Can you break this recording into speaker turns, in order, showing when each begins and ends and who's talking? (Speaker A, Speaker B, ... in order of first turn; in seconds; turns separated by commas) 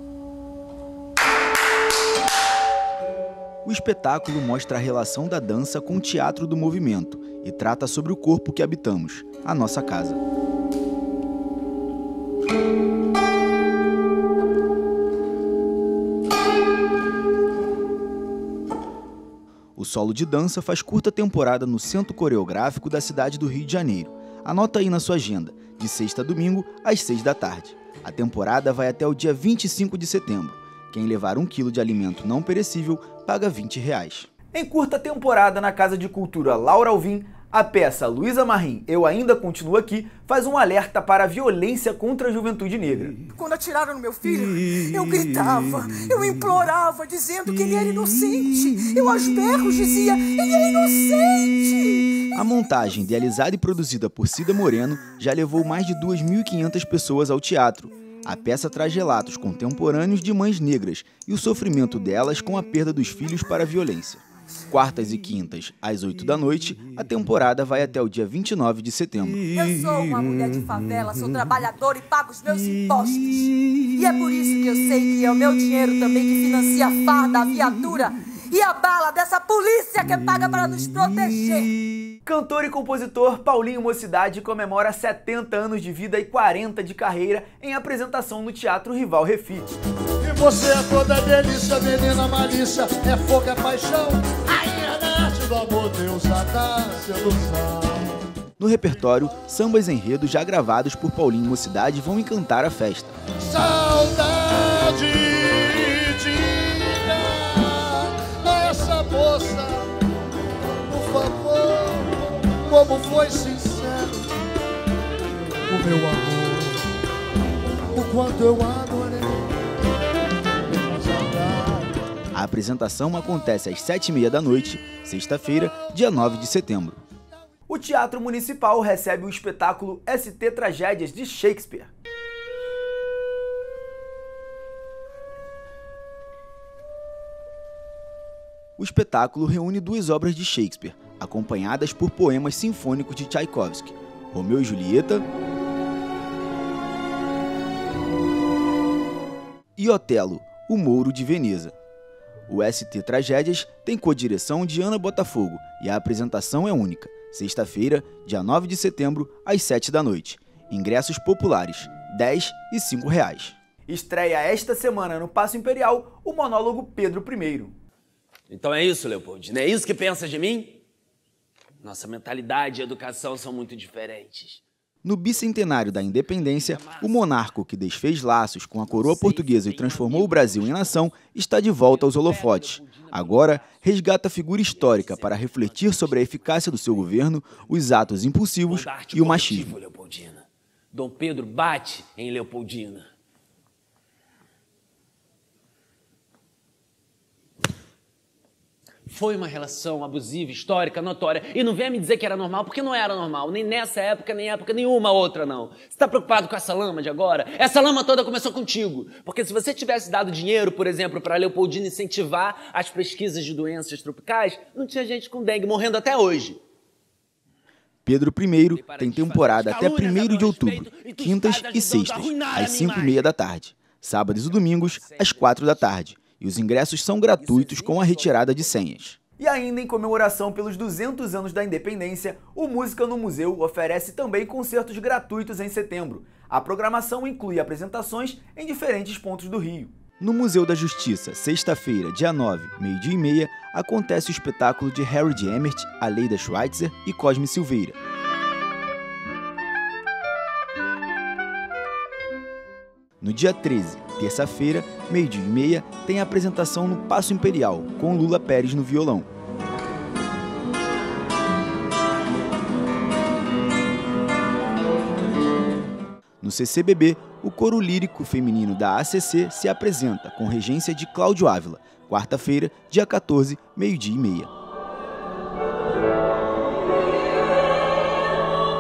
Speaker A: 3.6-10.2, Speaker A: 19.8-43.2, Speaker B: 43.3-52.4, Speaker A: 52.4-69.5, Speaker B: 69.5-81.8, Speaker A: 82.2-89.7, Speaker C: 90.2-98.2, Speaker A: 98.6-103.2, Speaker C: 103.4-110.0, Speaker C: 110.6-114.3, Speaker C: 115.7-116.9, Speaker C: 117.9-119.5, Speaker C: 120.7-122.0, Speaker A: 122.3-127.0, Speaker A: 127.7-131.9, Speaker A: 138.8-145.2, Speaker A: 149.8-151.7, Speaker A: 152.5-167.8, Speaker D: 168.5-170.8, Speaker D: 171.8-174.6, Speaker A: 175.0-189.8, Speaker D: 176.2-177.4, Speaker D: 178.8-183.8, Speaker D: 184.7-187.2, Speaker D: 188.7-193.1, Speaker D: 199.1-216.6, Speaker A: 218.1-248.0, Speaker D: 218.7-223.3, Speaker D: 224.3-226.0, Speaker D: 227.4-228.8, Speaker A: 253.2-259.3, Speaker A: 266.4-274.5